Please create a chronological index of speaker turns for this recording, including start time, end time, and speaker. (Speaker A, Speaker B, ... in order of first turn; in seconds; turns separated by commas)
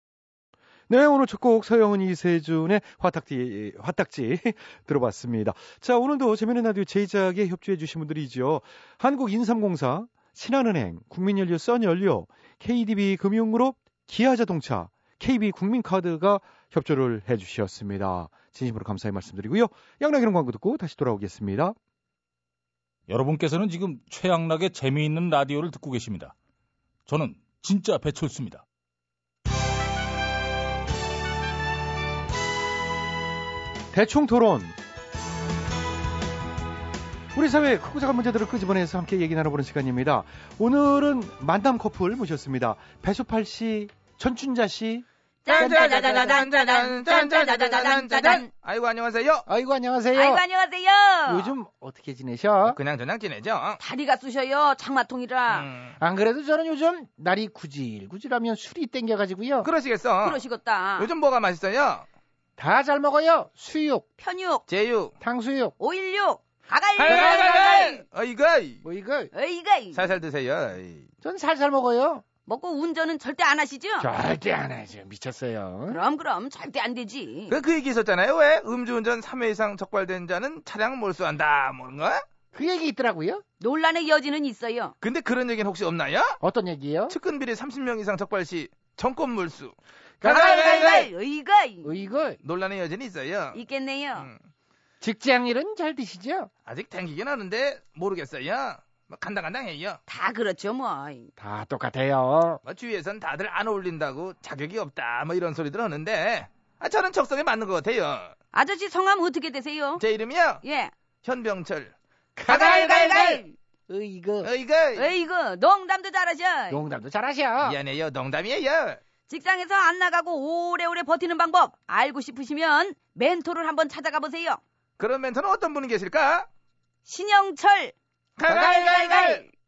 Speaker A: 0.9-21.8, Speaker B: 23.1-26.3, Speaker B: 27.1-28.6, Speaker A: 33.9-34.8, Speaker A: 37.3-45.1, Speaker C: 45.5-48.5, Speaker D: 45.5-49.5, Speaker A: 45.6-46.4, Speaker A: 49.5-50.4, Speaker C: 50.1-51.5, Speaker A: 51.3-52.8, Speaker D: 52.6-53.8, Speaker C: 53.8-55.7, Speaker D: 55.5-56.0, Speaker A: 56.0-59.7, Speaker D: 59.6-60.4, Speaker C: 60.2-61.1, Speaker D: 61.0-62.1, Speaker A: 62.6-64.1, Speaker C: 64.2-64.6, Speaker D: 64.7-65.1, Speaker A: 65.2-65.7, Speaker C: 65.8-68.0, Speaker D: 67.0-68.8, Speaker A: 67.1-67.4, Speaker A: 68.8-69.3, Speaker C: 69.3-70.1, Speaker D: 69.9-71.1, Speaker A: 71.2-72.2, Speaker C: 72.5-74.1, Speaker A: 74.0-76.0, Speaker C: 75.9-77.6, Speaker D: 77.5-82.2, Speaker A: 82.5-83.4, Speaker C: 83.6-84.9, Speaker D: 85.0-86.4, Speaker A: 86.4-87.2, Speaker D: 87.1-91.1, Speaker A: 90.2-90.6, Speaker C: 90.2-92.1, Speaker A: 91.8-92.4, Speaker D: 92.4-93.6, Speaker C: 93.5-94.3, Speaker A: 95.0-96.5, Speaker D: 96.7-100.0, Speaker C: 100.1-101.3, Speaker A: 101.4-102.6, Speaker D: 102.7-108.3, Speaker C: 108.5-110.0, Speaker D: 110.0-110.6, Speaker C: 110.6-110.9, Speaker D: 111.2-111.9, Speaker A: 112.4-114.5, Speaker C: 112.5-113.5, Speaker D: 112.5-113.4, Speaker D: 114.4-115.1, Speaker C: 115.0-116.8, Speaker A: 116.7-117.8, Speaker D: 117.6-119.0, Speaker C: 119.3-124.6, Speaker D: 125.0-126.5, Speaker C: 127.1-128.0, Speaker D: 128.4-129.4, Speaker A: 128.5-128.9, Speaker C: 128.6-129.5